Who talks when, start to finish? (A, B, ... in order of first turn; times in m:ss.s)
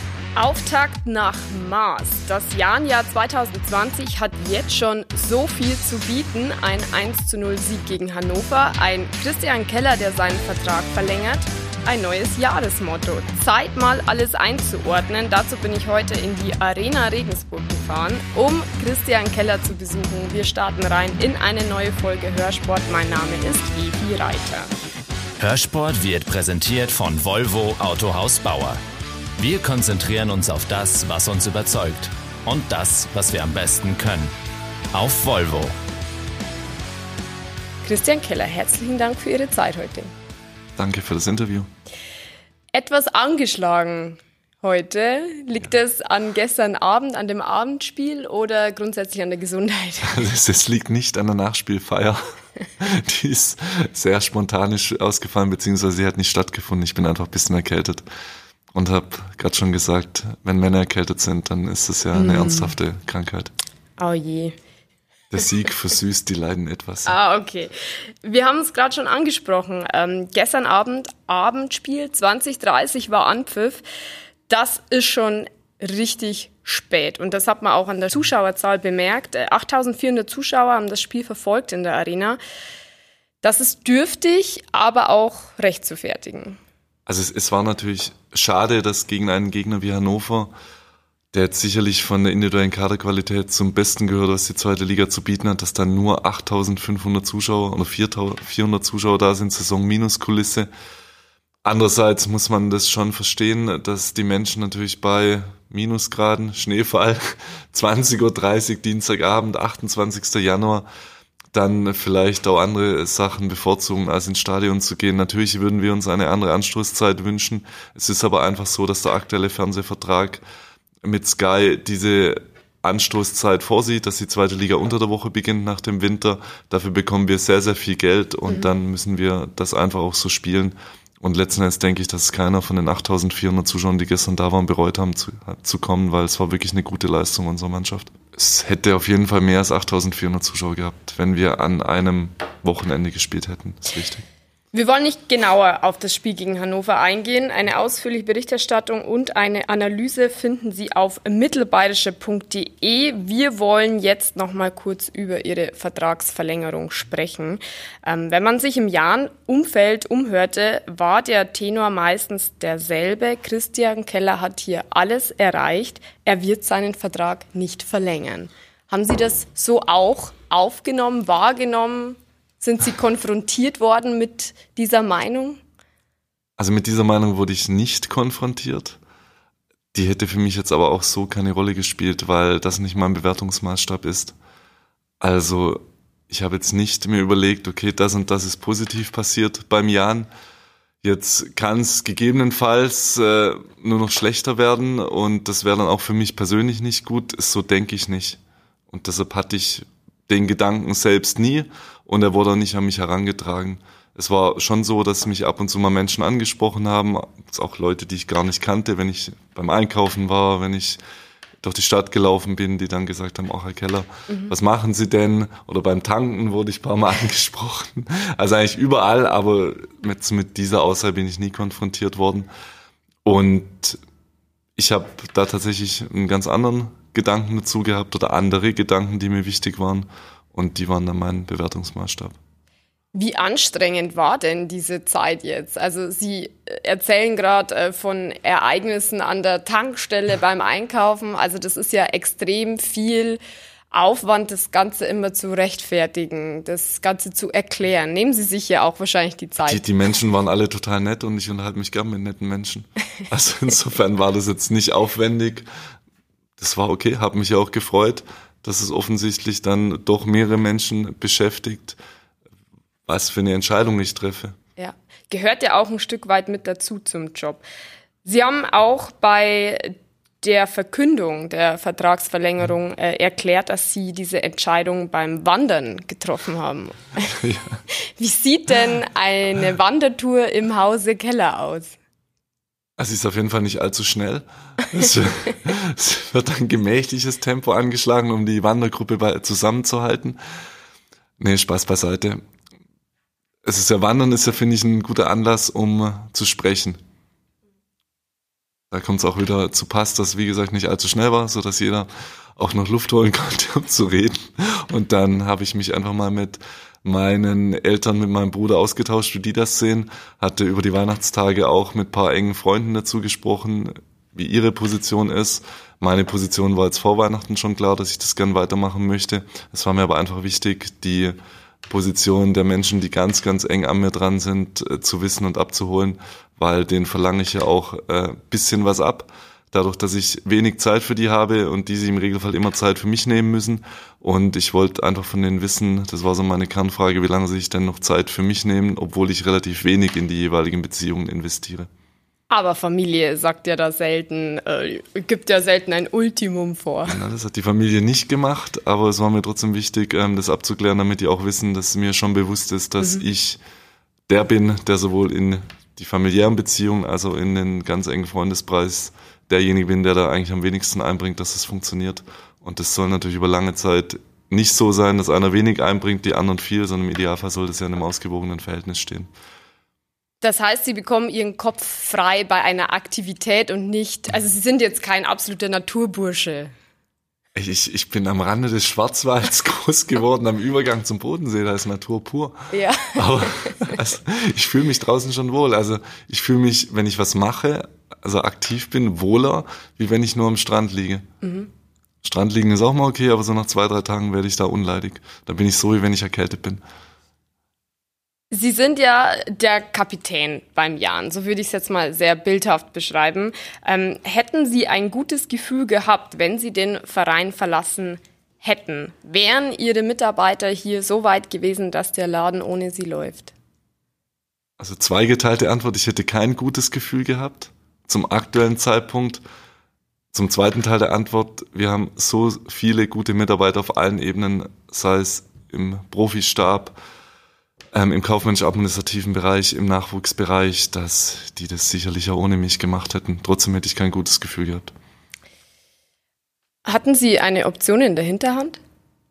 0:00.4-0:24.7 A
0:25.4-0:28.8 B
0:29.4-0:34.3 B
0:34.9-0:35.7 B
0:37.8-0:40.1 A
0:40.8-0:41.7 C
0:42.7-0:50.2 A
0:50.0-0:52.2 C
0:52.8-0:58.0 C
0:58.7-1:03.5 C
1:02.1-1:02.7 A
1:04.0-1:04.6 A
1:05.3-1:07.1 C
1:07.0-1:13.8 A
1:14.5-1:22.4 A
1:23.4-1:26.6 A
1:27.0-1:30.5 C
1:31.3-1:40.7 C
1:41.6-1:50.8 C
1:51.5-2:00.4 C
2:01.0-2:24.2 C
2:24.7-2:55.6 A
2:56.6-2:59.0 C
2:59.9-3:04.3 C
3:05.2-3:10.3 C
3:11.0-3:31.0 C
3:31.6-3:42.5 C
3:34.3-3:34.5 A
3:43.2-3:44.0 C
3:44.8-3:52.4 C
3:53.1-4:03.4 A
4:03.9-4:09.8 A
4:09.6-4:15.7 C
4:16.6-4:22.0 C
4:23.0-4:24.6 C
4:24.8-4:27.6 A
4:28.2-4:37.4 A
4:37.2-4:37.8 C
4:38.0-4:42.0 A
4:43.0-4:50.4 C
4:51.4-4:52.4 C
4:53.6-4:57.0 C
4:58.9-5:21.4 C
5:21.9-5:41.9 C
5:42.5-5:47.2 A
5:47.0-5:53.6 C
5:54.3-6:09.3 C
6:10.4-6:16.7 A
6:17.5-6:31.3 C
6:22.7-6:24.0 A
6:31.4-6:31.7 A
6:32.2-6:36.8 C
6:38.5-6:53.5 A
6:54.8-6:59.4 C
7:00.3-7:07.0 C
7:07.9-7:14.9 C
7:16.8-7:18.8 A